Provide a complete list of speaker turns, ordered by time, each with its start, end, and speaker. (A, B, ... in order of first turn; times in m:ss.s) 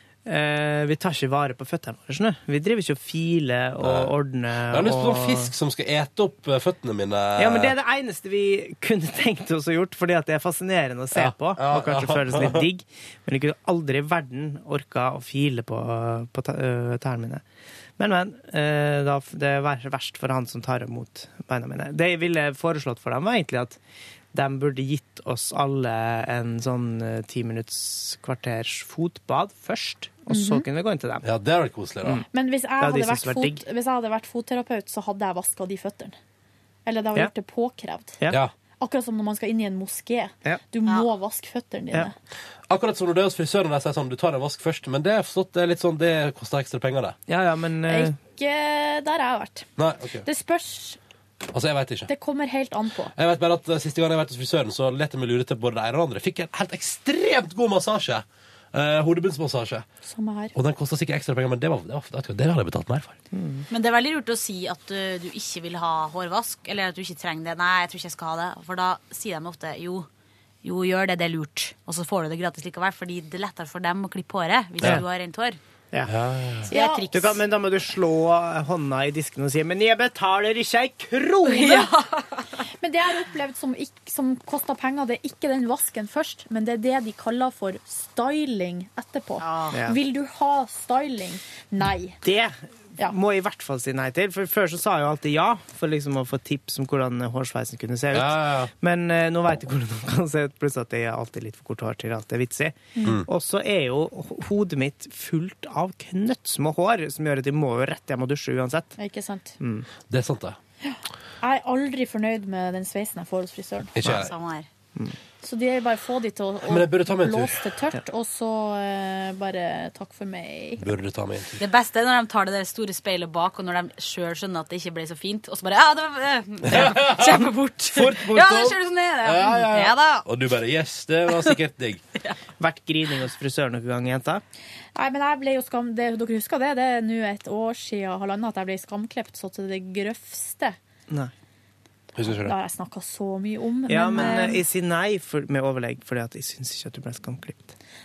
0:00.2-0:05.5 A
0:03.8-0:04.1 B
0:04.7-0:07.7 B
0:07.4-0:17.4 A
0:11.1-0:12.6 B
0:18.0-0:23.8 A
0:24.3-0:31.3 A
0:30.3-0:30.6 C
0:31.2-0:32.2 B
0:32.3-0:36.1 C
0:32.8-0:33.6 A
0:36.8-0:38.2 C
0:38.8-0:42.1 C
0:42.7-0:47.2 B
0:47.3-0:48.1 A
0:47.9-0:49.7 C
0:49.8-0:50.2 B
0:50.2-0:51.0 C
0:51.5-0:52.1 B
0:52.1-0:53.1 C
0:53.1-0:59.8 B
1:00.0-1:00.5 C
1:00.5-1:03.2 B
1:03.3-1:03.6 A
1:03.7-1:10.1 D
1:10.6-1:15.6 D
1:16.1-1:16.7 B
1:16.7-1:17.4 D
1:16.7-1:17.1 C
1:17.1-1:21.8 A
1:21.5-1:21.9 C
1:21.5-1:22.4 D
1:22.8-1:32.2 C
1:29.4-1:29.8 D
1:29.7-1:30.0 A
1:32.2-1:49.0 A
1:38.1-1:38.7 B
1:49.0-1:49.5 C
1:49.6-1:49.9 A
1:50.1-1:50.6 B
1:50.8-1:53.9 C
1:54.0-1:54.3 B
1:54.1-1:54.7 D
1:55.4-2:00.8 C
1:56.6-1:57.7 B
2:00.8-2:01.6 B
2:01.6-2:10.3 D
2:06.7-2:12.0 B
2:12.6-2:14.4 A
2:14.9-2:20.8 C
2:22.1-2:22.5 B
2:22.4-2:24.6 C
2:23.9-2:27.7 A